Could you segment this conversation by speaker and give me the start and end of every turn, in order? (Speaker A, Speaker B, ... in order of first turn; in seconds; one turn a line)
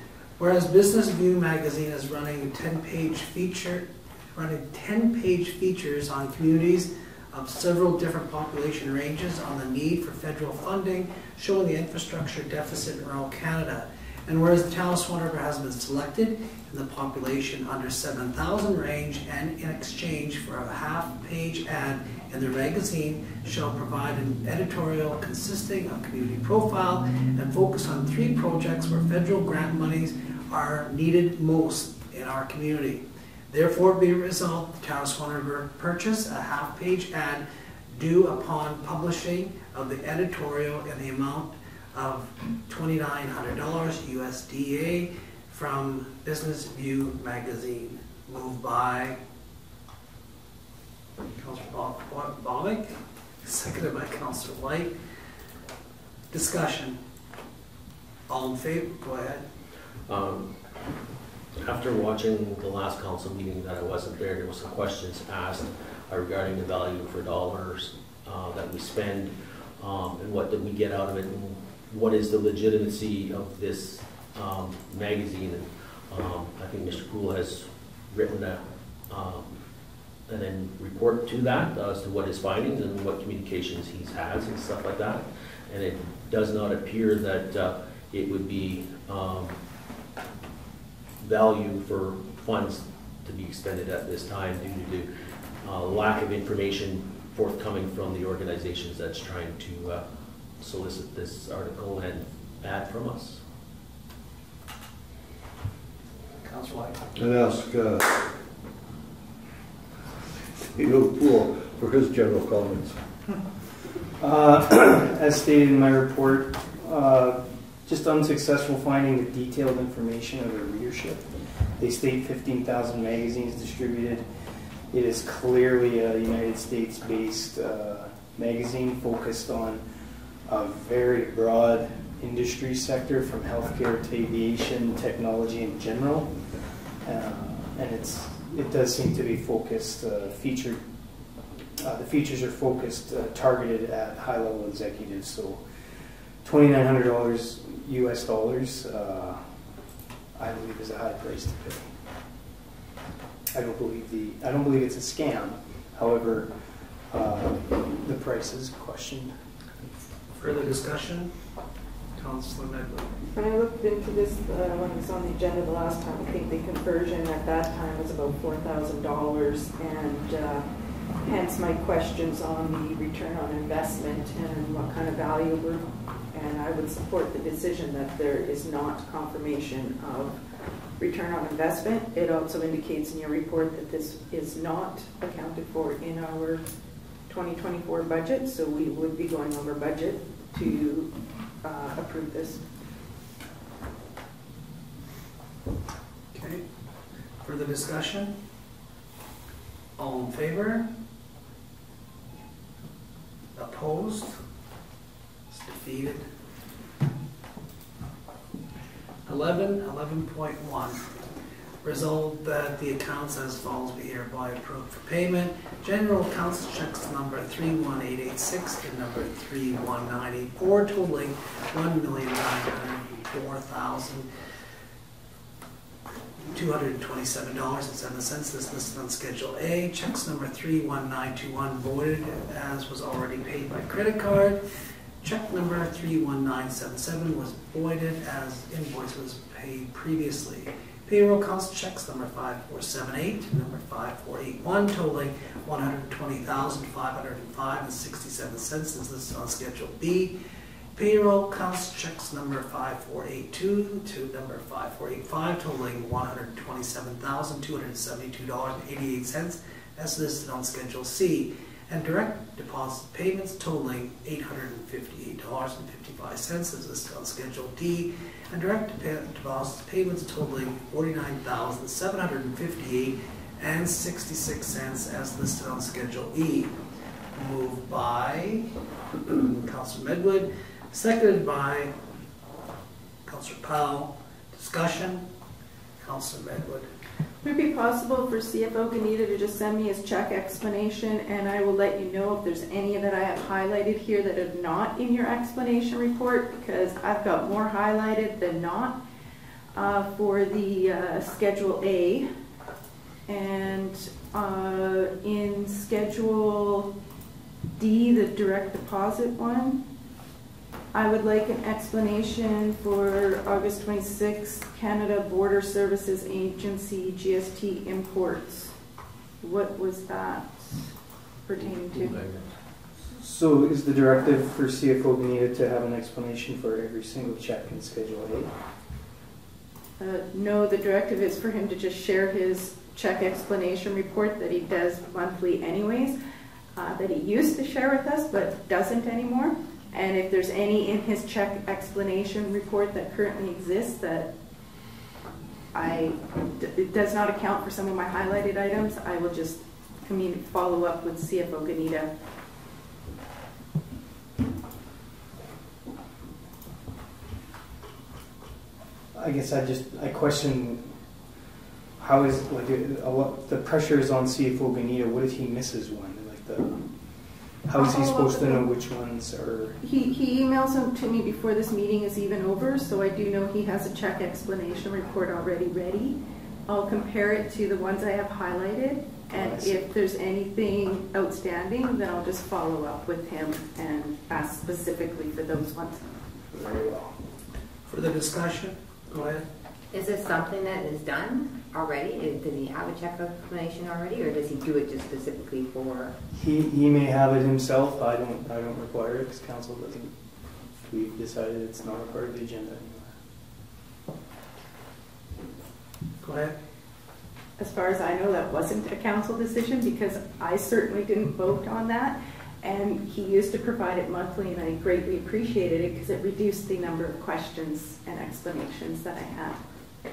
Speaker A: 0.4-49.2
Speaker A: 51.4-55.0
Speaker A: 56.3-57.0
Speaker A: 58.3-59.4
Speaker B: 60.1-60.9
Speaker B: 61.6-79.6
Speaker B: 80.3-89.5
Speaker B: 91.2-95.1
Speaker B: 95.6-103.4
Speaker A: 106.4-107.0
Speaker C: 107.2-108.2
Speaker C: 110.7-113.0
Speaker D: 114.2-124.2
Speaker D: 124.9-129.8
Speaker D: 130.4-136.4
Speaker D: 137.0-140.8
Speaker D: 141.8-145.6
Speaker D: 146.4-149.4
Speaker D: 150.3-151.9
Speaker D: 153.5-156.5
Speaker D: 157.1-159.3
Speaker A: 160.4-161.3
Speaker A: 162.2-163.1
Speaker E: 163.3-170.6
Speaker E: 171.2-180.4
Speaker E: 181.0-186.6
Speaker E: 187.3-192.6
Speaker A: 196.3-196.6
Speaker A: 197.4-198.4
Speaker A: 200.0-200.9
Speaker A: 203.5-204.4
Speaker A: 205.5-206.2
Speaker A: 209.2-211.0
Speaker A: 211.8-224.3
Speaker A: 226.5-234.6
Speaker A: 235.2-250.3
Speaker A: 250.9-276.8
Speaker A: 277.3-278.7
Speaker A: 279.3-281.9
Speaker A: 283.2-285.2
Speaker A: 286.0-286.9
Speaker E: 287.4-299.0
Speaker E: 299.7-302.3
Speaker E: 303.3-306.9
Speaker E: 307.8-309.8
Speaker E: 310.9-318.7
Speaker E: 319.4-320.9
Speaker E: 321.4-322.1
Speaker B: 321.6-322.5
Speaker D: 323.1-328.5
Speaker E: 330.0-336.1
Speaker E: 336.7-344.3
Speaker E: 345.7-352.1
Speaker D: 359.1-360.9
Speaker D: 362.0-369.8
Speaker E: 367.8-368.6
Speaker E: 369.8-386.1
Speaker D: 379.3-379.8
Speaker D: 386.5-387.1
Speaker A: 387.9-389.4
Speaker F: 389.9-396.1
Speaker D: 396.3-400.1
Speaker D: 400.8-403.1
Speaker A: 406.2-406.6
Speaker E: 407.6-419.6